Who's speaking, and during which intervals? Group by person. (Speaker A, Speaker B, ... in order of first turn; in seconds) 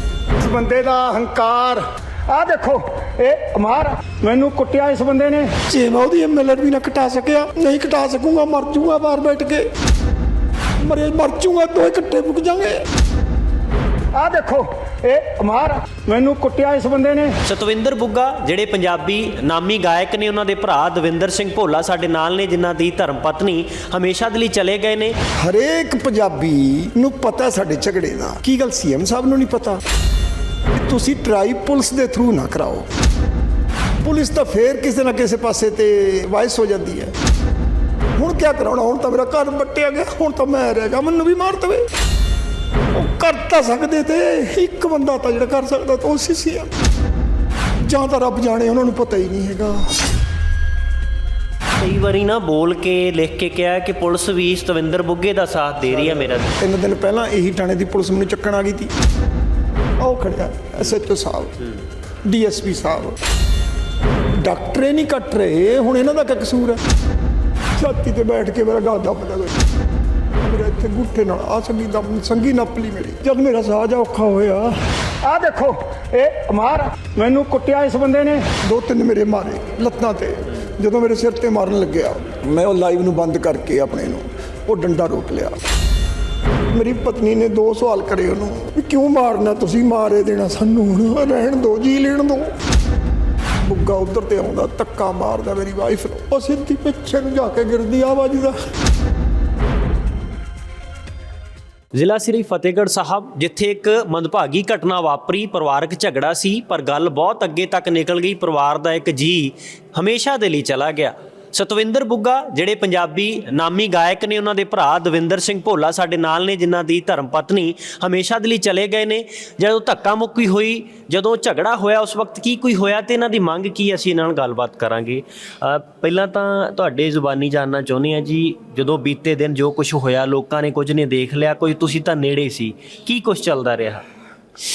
Speaker A: 0.4-5.5, 14.1-17.4, 75.2-78.5
Speaker B: 5.6-9.7, 10.8-12.8, 25.4-29.8, 30.8-32.9, 34.0-37.1, 38.2-41.9, 42.9-46.7, 47.8-49.9, 56.4-58.9, 60.0-61.6, 62.2-63.2, 64.3-66.8, 67.7-69.5, 70.4-74.8, 78.5-85.6, 86.7-92.5, 93.6-98.5
Speaker C: 17.4-25.2, 51.8-56.6, 102.0-134.0